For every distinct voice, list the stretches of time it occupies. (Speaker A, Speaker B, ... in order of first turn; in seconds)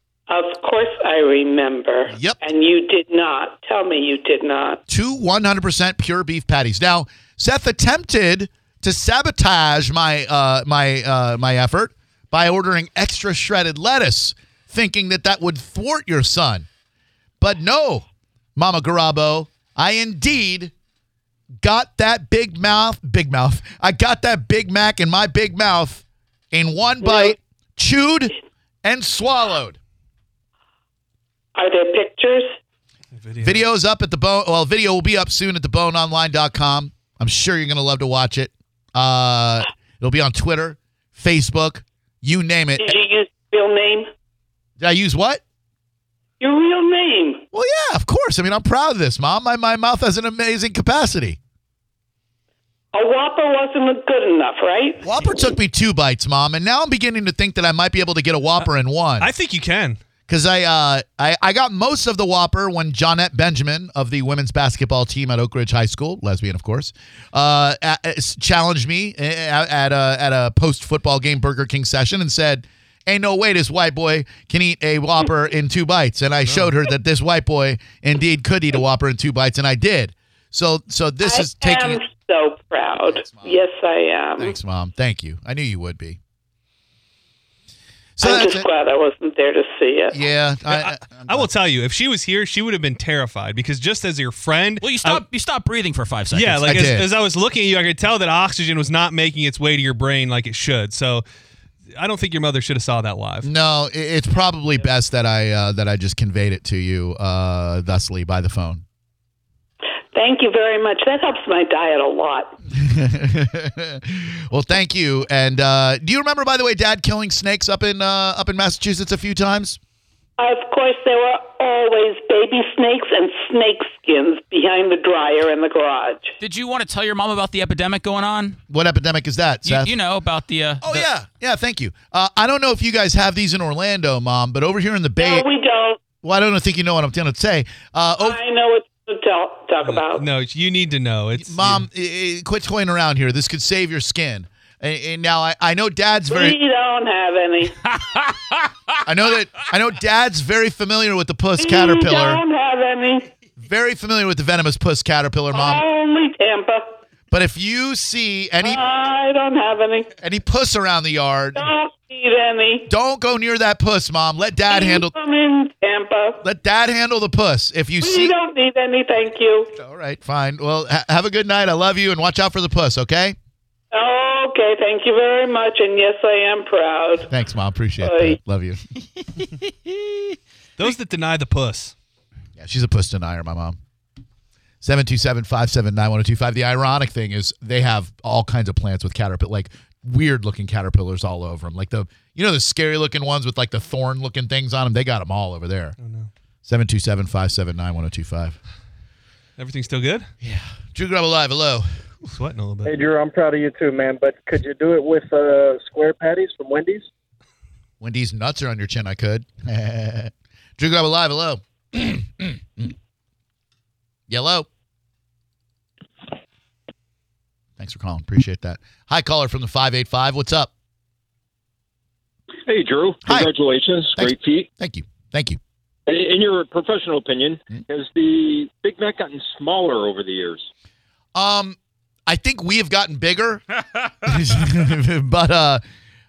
Speaker A: 0.3-4.8, 27.0-27.3, 31.5-32.5, 42.8-44.1, 46.4-47.4, 52.9-55.0, 81.2-84.6, 88.2-90.2, 110.1-112.5, 120.4-126.3, 135.2-136.0, 138.2-140.2, 146.3-147.8, 151.6-153.3, 155.5-156.9, 158.6-160.2, 161.5-162.9, 164.7-166.4, 168.0-169.7, 173.9-177.3, 178.0-178.4
Speaker B: 2.1-2.4, 4.9-16.7, 17.4-20.7, 21.6-29.8, 33.4-43.0, 44.8-45.4, 47.5-51.4, 55.0-59.3, 60.3-82.0, 83.0-83.6, 84.4-86.2, 88.2-88.7, 90.1-91.5, 96.7-97.1, 103.4-108.8, 112.7-119.8, 128.7-129.9, 130.8-135.4, 136.2-138.4, 141.4-146.6, 149.0-152.4, 153.6-155.8, 157.3-158.8, 160.2-161.7, 162.9-165.1, 166.4-168.3, 169.7-173.3, 177.3-178.8, 182.6-183.8, 184.8-195.9, 196.7-198.6, 200.4-201.8, 208.0-212.9, 214.3-214.7, 217.8-220.7, 224.2-225.6, 231.3-233.6, 234.2-235.8
Speaker C: 33.1-33.6, 59.2-60.0, 90.7-95.2, 96.3-101.2, 101.9-103.5, 139.9-141.8, 180.8-181.9, 196.0-196.3, 199.6-200.3, 202.2-202.9
Speaker D: 94.8-96.8, 126.4-128.6, 129.7-131.0, 147.8-149.0
Speaker E: 202.8-207.1
Speaker F: 222.7-224.7, 226.1-230.7